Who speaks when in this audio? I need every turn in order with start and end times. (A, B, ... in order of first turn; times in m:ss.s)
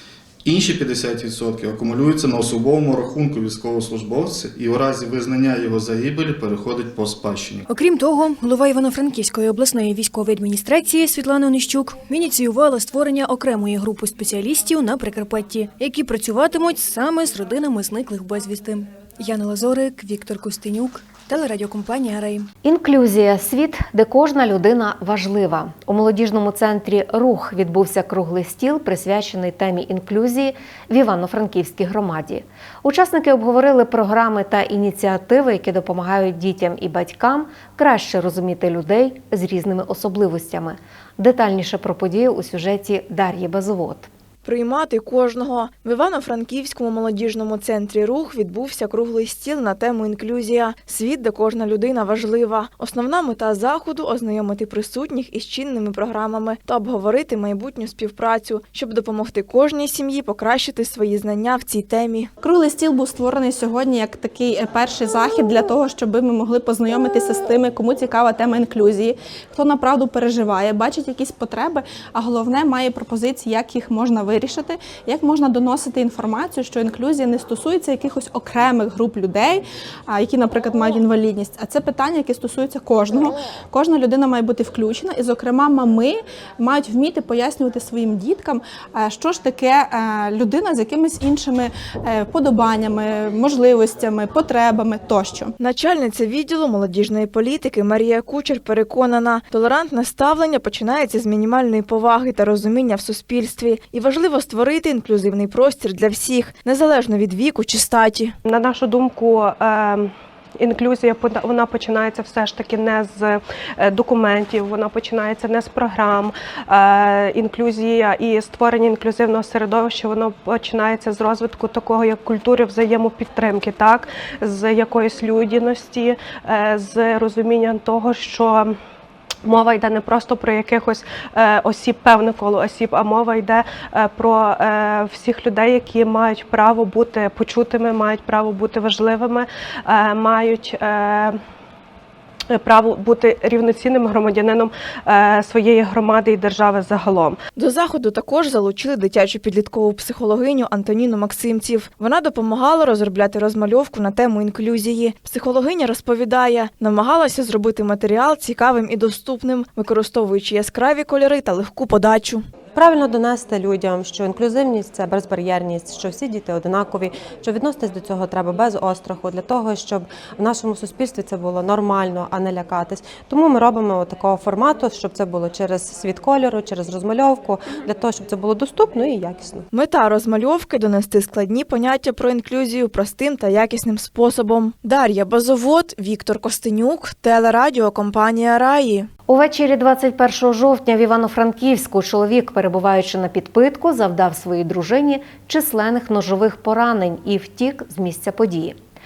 0:00.4-0:07.6 A
0:07.7-0:22.5 B
0:22.6-0:44.1 C
0:44.4-1:02.3 D
1:02.4-1:35.5 E
1:35.6-1:48.3 D
1:48.5-1:50.0 F
1:50.7-1:53.3 F
1:54.0-1:56.2 F
1:57.4-2:00.6 F
2:01.3-2:04.0 F
2:04.6-2:06.0 F
2:06.9-2:07.4 F
2:10.2-2:11.0 F
2:15.2-2:19.4 F
2:20.2-2:21.3 F
2:22.7-2:24.3 F
2:25.4-2:27.2 F
2:27.6-2:42.4 D
2:42.8-2:59.6 G
2:59.7-3:09.1 D
3:09.3-3:18.8 C